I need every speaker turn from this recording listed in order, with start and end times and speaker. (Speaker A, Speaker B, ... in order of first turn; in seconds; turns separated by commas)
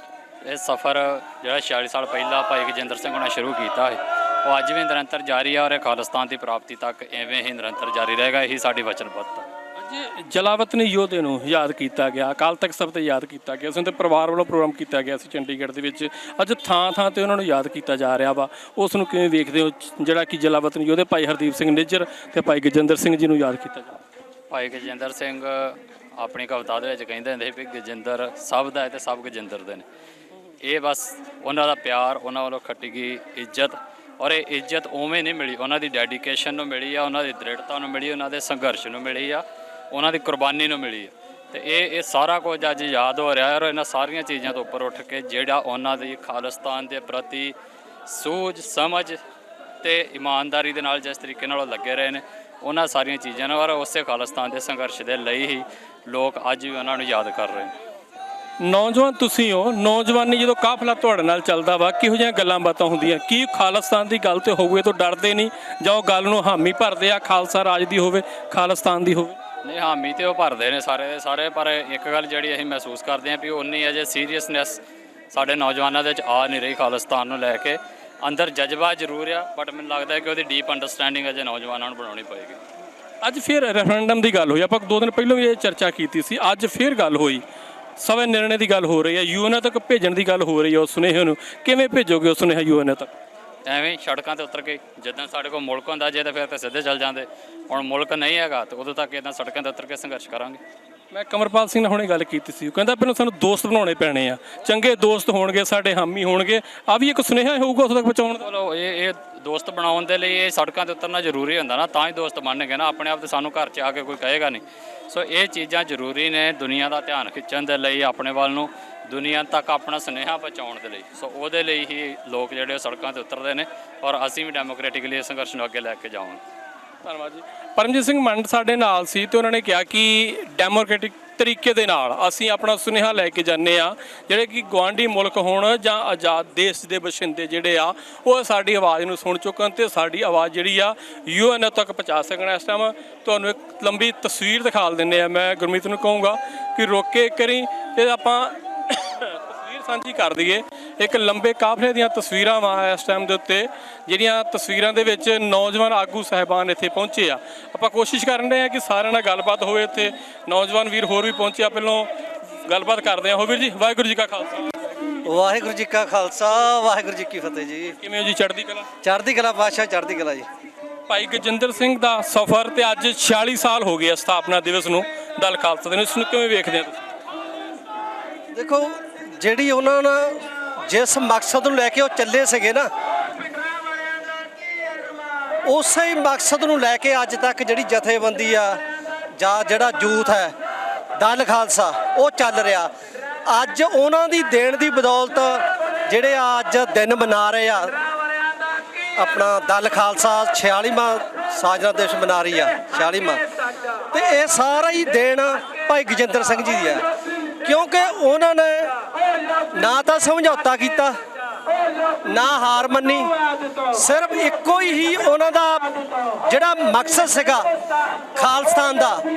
Speaker A: 0.5-9.5, Speaker B: 9.8-24.0, Speaker A: 24.5-29.9, Speaker A: 30.6-47.5, Speaker A: 48.1-49.2, Speaker A: 49.8-57.7, Speaker B: 58.6-69.4, Speaker A: 69.6-82.6, Speaker B: 83.2-87.4, Speaker B: 88.0-93.1, Speaker A: 93.7-100.6, Speaker B: 101.1-108.5, Speaker A: 108.4-126.4, Speaker B: 127.0-162.1, Speaker B: 162.7-164.8, Speaker C: 165.2-168.0, Speaker B: 168.0-168.9, Speaker C: 169.0-170.5, Speaker B: 171.1-177.1, Speaker C: 178.5-182.9, Speaker C: 185.7-188.8, Speaker C: 189.4-190.5, Speaker C: 191.2-192.9, Speaker C: 193.5-197.9, Speaker C: 199.2-203.4, Speaker C: 204.1-207.1, Speaker C: 207.6-208.9, Speaker C: 209.7-211.2, Speaker C: 212.2-213.3, Speaker C: 213.9-217.7, Speaker C: 218.3-219.2